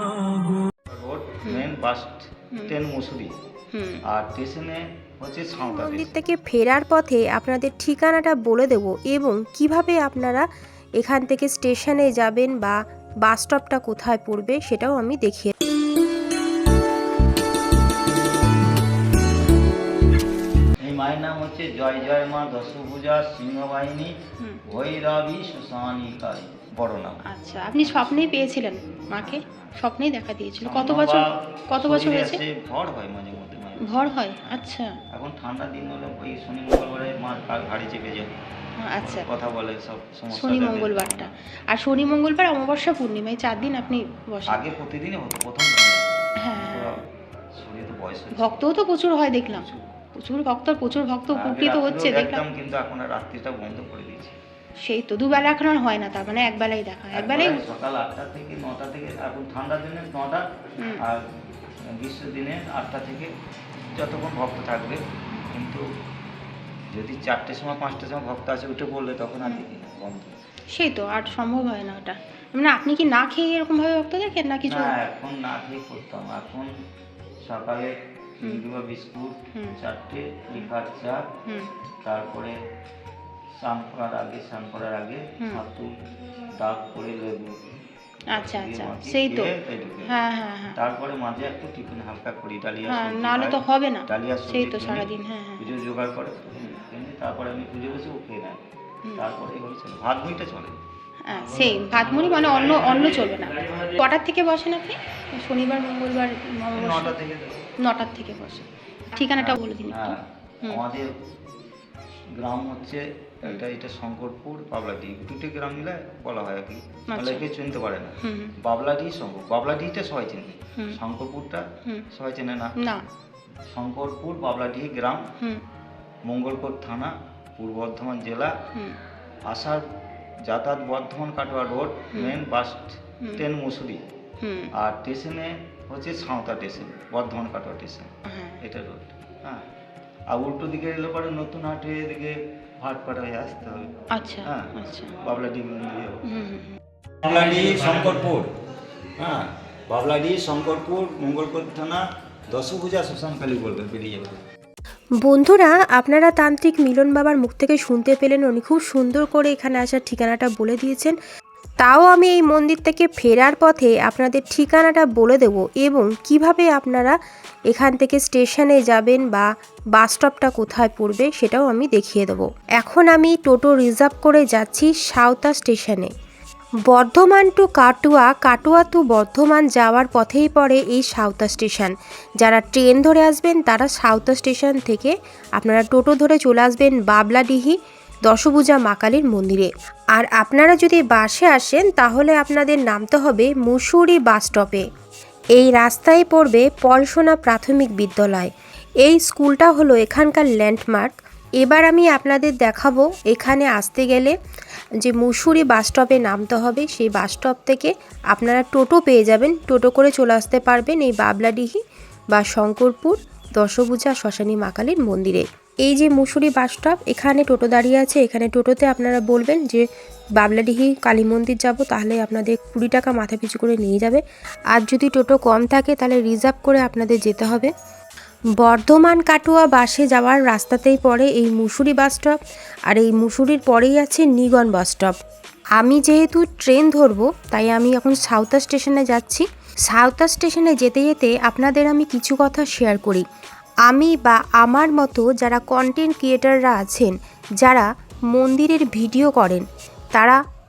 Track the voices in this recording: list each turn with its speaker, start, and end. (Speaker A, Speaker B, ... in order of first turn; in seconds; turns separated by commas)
Speaker A: 0.9-3.3, Speaker B: 3.7-4.0, Speaker A: 4.1-6.1, Speaker C: 5.6-10.5, Speaker C: 11.0-15.5, Speaker A: 20.8-27.2, Speaker B: 27.3-32.3, Speaker A: 27.8-28.5, Speaker A: 29.1-29.7, Speaker A: 30.6-38.3, Speaker B: 33.8-34.9, Speaker B: 38.8-39.3, Speaker A: 39.0-41.3, Speaker B: 40.4-44.6, Speaker A: 43.6-44.0, Speaker A: 44.5-47.0, Speaker B: 46.4-47.0, Speaker A: 47.6-48.7, Speaker B: 48.4-52.4, Speaker A: 49.4-50.0, Speaker A: 51.3-54.4, Speaker B: 54.9-57.6, Speaker A: 57.1-60.5, Speaker A: 62.0-63.3, Speaker A: 63.9-65.8, Speaker A: 66.9-70.4, Speaker C: 70.8-74.8, Speaker B: 72.7-73.7, Speaker A: 74.6-76.7, Speaker A: 77.4-81.3, Speaker A: 82.0-82.6, Speaker A: 83.6-86.0, Speaker A: 86.6-87.6, Speaker B: 88.3-89.5, Speaker A: 88.3-98.6, Speaker B: 90.1-90.8, Speaker B: 92.9-95.7, Speaker A: 99.1-100.8, Speaker B: 101.3-103.5, Speaker A: 101.3-104.0, Speaker B: 104.0-107.1, Speaker C: 105.5-106.7, Speaker A: 106.7-107.7, Speaker B: 107.9-109.2, Speaker C: 109.2-110.0, Speaker A: 109.3-111.1, Speaker A: 112.4-122.7, Speaker B: 117.1-117.5, Speaker B: 118.2-118.5, Speaker A: 123.7-125.2, Speaker A: 126.3-128.5, Speaker B: 128.8-129.0, Speaker A: 129.5-129.8, Speaker A: 130.5-134.0, Speaker B: 134.4-134.7, Speaker A: 134.8-138.1, Speaker B: 138.3-138.6, Speaker A: 138.6-139.6, Speaker A: 140.3-146.3, Speaker B: 144.1-145.2, Speaker B: 146.3-146.8, Speaker A: 147.2-148.5, Speaker A: 149.2-154.4, Speaker C: 155.2-161.2, Speaker C: 161.8-167.2, Speaker C: 167.7-176.1, Speaker C: 176.9-194.8, Speaker C: 195.6-204.4, Speaker C: 205.0-211.8, Speaker C: 212.3-219.8, Speaker C: 220.4-224.2, Speaker C: 224.7-227.7, Speaker C: 228.6-232.4, Speaker C: 232.9-235.2, Speaker C: 235.8-243.2, Speaker C: 243.9-250.4